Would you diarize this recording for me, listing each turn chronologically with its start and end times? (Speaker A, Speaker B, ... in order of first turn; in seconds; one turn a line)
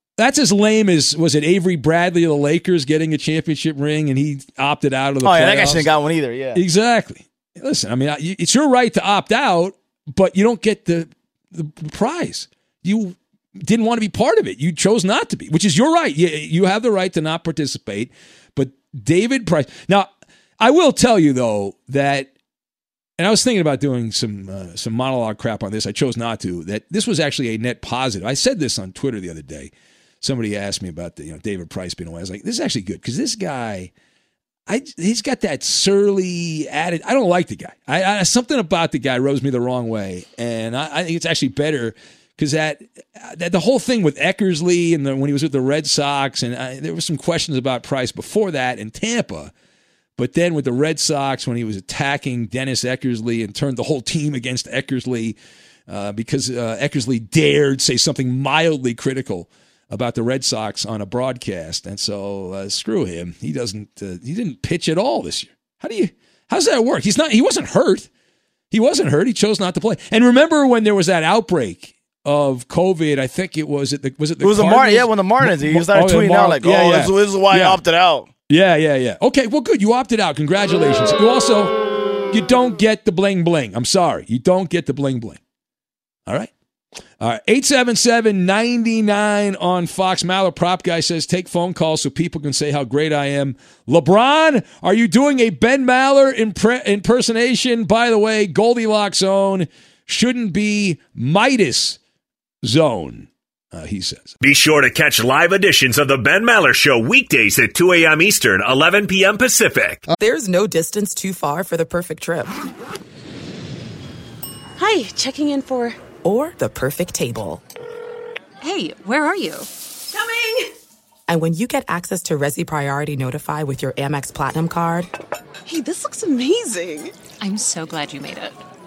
Speaker A: 0.2-5.9
Speaker B: 5.2-6.6
Speaker A: 6.5-20.1
Speaker A: 20.6-22.3
Speaker A: 23.2-33.9
Speaker A: 34.7-49.5
Speaker A: 50.2-55.4
Speaker A: 55.9-68.1
Speaker A: 68.7-77.8
Speaker B: 74.4-78.3
Speaker A: 78.5-81.8
Speaker A: 82.3-85.4
Speaker A: 87.2-102.0
Speaker A: 102.6-104.4
Speaker C: 104.4-110.0
Speaker D: 110.2-112.5
Speaker E: 114.8-116.0
Speaker D: 116.2-117.6
Speaker D: 121.3-125.1
Speaker E: 125.7-128.5